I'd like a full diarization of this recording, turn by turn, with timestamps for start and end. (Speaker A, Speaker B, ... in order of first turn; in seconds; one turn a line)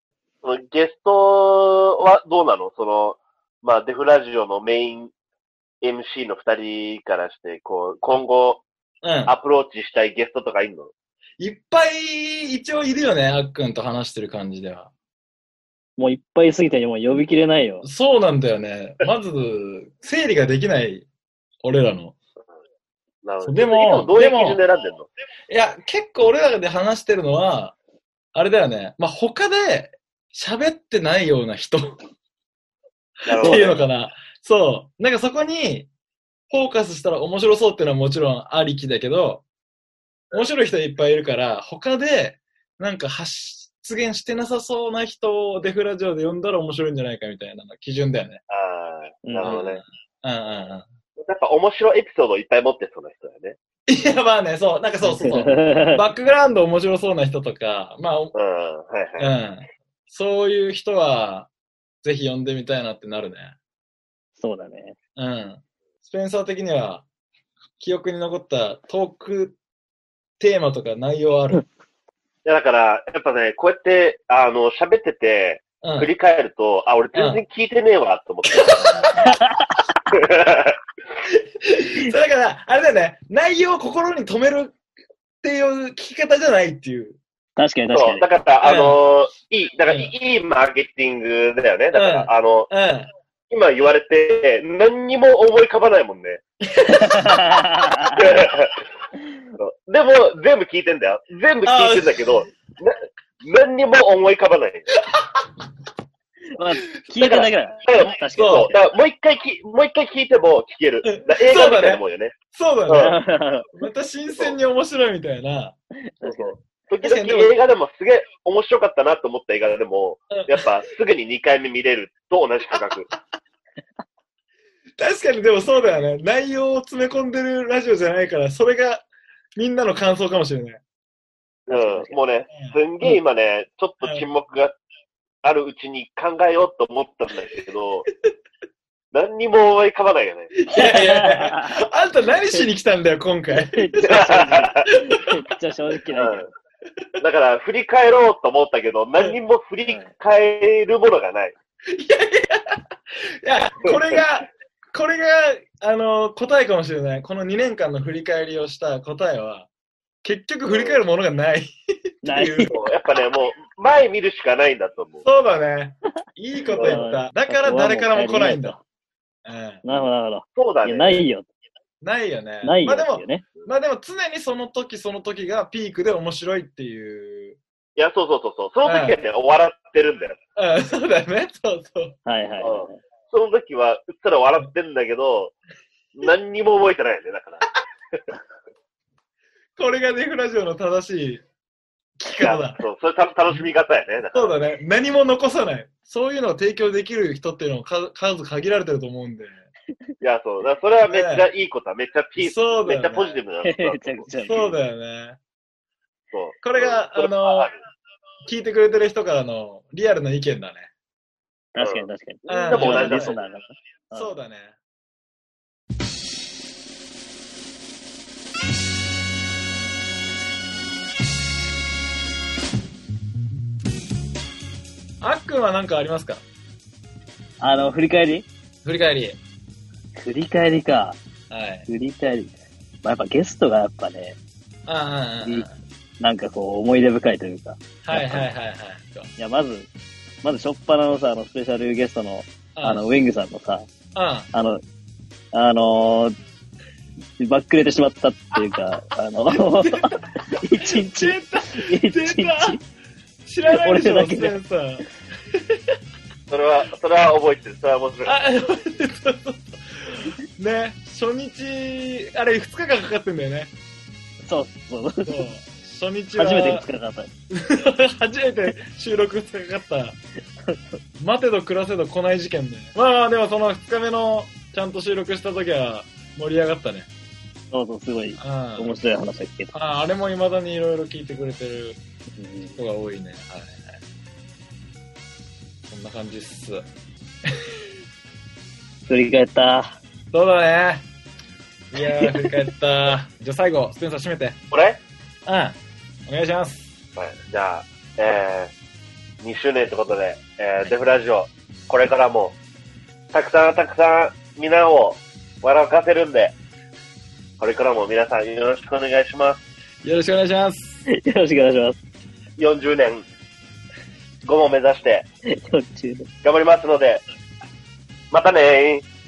Speaker A: 0.4-5.1
Speaker A: 5.8-8.7
Speaker B: 9.0-9.3
Speaker A: 9.3-10.9
Speaker B: 11.4-14.9
Speaker C: 16.0-17.8
Speaker B: 17.8-21.1
Speaker B: 21.6-22.2
Speaker A: 23.2-25.1
Speaker B: 23.4-24.6
Speaker B: 25.5-27.7
Speaker B: 28.3-32.0
Speaker A: 33.2-33.8
Speaker B: 33.3-35.9
Speaker C: 33.4-33.7
Speaker B: 36.5-39.4
Speaker B: 40.3-48.4
Speaker A: 48.5-49.8
Speaker C: 49.2-49.6
Speaker B: 49.4-50.9
Speaker A: 51.2-53.6
Speaker B: 53.9-58.3
Speaker C: 55.1-56.0
Speaker A: 58.3-59.3
Speaker B: 59.2-61.5
Speaker B: 62.0-63.6
Speaker C: 64.4-65.0
Speaker B: 65.2-67.0
Speaker B: 67.8-69.6
Speaker B: 70.4-71.6
Speaker A: 72.4-79.0
Speaker B: 75.8-76.1
Speaker B: 77.1-77.4
Speaker B: 78.6-79.0
Speaker A: 80.1-80.7
Speaker B: 81.7-84.8
Speaker B: 85.4-87.2
Speaker C: 87.6-88.3
Speaker A: 87.9-92.7
Speaker B: 88.6-89.0
Speaker B: 89.9-90.1
Speaker B: 91.9-93.1
Speaker A: 93.5-96.4
Speaker B: 96.8-97.5
Speaker C: 97.0-98.2
Speaker A: 98.2-98.8
Speaker A: 99.6-104.8
Speaker B: 101.6-102.5
Speaker B: 105.1-105.4
Speaker C: 106.5-108.8
Speaker A: 107.2-112.3
Speaker B: 108.3-108.7
Speaker B: 111.0-113.2
Speaker A: 112.9-113.2
Speaker C: 112.9-113.7
Speaker B: 113.7-115.8
Speaker C: 116.2-116.5
Speaker A: 116.2-123.1
Speaker B: 117.0-117.5
Speaker B: 120.3-120.6
Speaker B: 122.7-123.1
Speaker B: 125.0-130.8
Speaker C: 131.7-132.2
Speaker A: 131.7-134.8
Speaker B: 132.5-132.8
Speaker B: 134.0-134.3
Speaker A: 135.4-138.1
Speaker A: 139.1-140.5
Speaker B: 140.6-144.2
Speaker C: 140.7-141.7
Speaker C: 143.5-146.4
Speaker A: 144.1-144.8
Speaker A: 146.1-146.5
Speaker A: 147.2-151.5
Speaker B: 151.9-152.7
Speaker B: 153.4-159.7
Speaker A: 153.9-154.2
Speaker B: 160.2-162.7
Speaker A: 160.7-161.0
Speaker C: 162.2-162.7
Speaker A: 162.7-165.2
Speaker B: 165.2-168.8
Speaker A: 166.8-167.0
Speaker C: 166.8-168.8
Speaker B: 169.4-169.8
Speaker C: 169.8-171.4
Speaker A: 170.6-171.2
Speaker B: 172.0-177.6
Speaker C: 172.6-173.4
Speaker A: 178.0-180.4
Speaker B: 178.8-179.2
Speaker B: 180.6-182.2
Speaker C: 182.2-183.0
Speaker A: 182.6-185.5
Speaker A: 186.2-188.2
Speaker B: 189.8-191.4
Speaker B: 192.2-192.8
Speaker A: 192.4-194.6
Speaker B: 194.3-199.6
Speaker A: 200.2-204.7
Speaker B: 201.1-201.5
Speaker B: 202.4-203.3
Speaker C: 203.6-204.8
Speaker B: 204.4-205.4
Speaker A: 206.3-207.8
Speaker B: 206.6-207.7
Speaker B: 208.4-210.9
Speaker C: 211.7-214.4
Speaker A: 211.8-213.4
Speaker B: 212.5-213.4
Speaker B: 214.1-214.8
Speaker B: 225.2-226.4
Speaker C: 227.6-228.5
Speaker B: 228.8-229.4
Speaker C: 230.1-231.2
Speaker B: 231.5-231.9
Speaker C: 231.9-234.4
Speaker B: 234.8-235.7
Speaker C: 236.2-238.5
Speaker B: 238.0-239.3
Speaker C: 239.4-239.9
Speaker C: 240.4-243.9
Speaker B: 242.7-243.0
Speaker B: 244.1-244.5
Speaker C: 244.5-244.8
Speaker C: 245.5-246.3
Speaker C: 247.4-252.8
Speaker B: 249.6-250.0
Speaker B: 250.8-252.8
Speaker B: 253.4-255.0
Speaker C: 253.7-254.6
Speaker A: 256.5-258.4
Speaker B: 258.2-263.7
Speaker C: 264.4-265.4
Speaker B: 265.2-266.9
Speaker C: 266.3-267.3
Speaker B: 267.5-270.2
Speaker B: 271.2-277.1
Speaker C: 277.7-279.7
Speaker B: 278.4-279.0
Speaker B: 279.7-282.0
Speaker C: 282.4-282.8
Speaker B: 282.7-284.0
Speaker B: 285.9-286.8
Speaker C: 289.1-289.9
Speaker B: 290.3-291.1
Speaker B: 291.9-294.6
Speaker C: 292.2-292.5
Speaker A: 294.7-295.0
Speaker B: 295.4-296.9
Speaker A: 297.1-298.7
Speaker A: 299.4-302.6
Speaker A: 303.3-306.5
Speaker A: 307.6-309.6
Speaker B: 310.0-311.0
Speaker C: 311.2-312.0
Speaker A: 312.6-313.3
Speaker A: 314.4-315.3
Speaker C: 315.6-316.3
Speaker A: 316.4-317.2
Speaker A: 318.3-319.0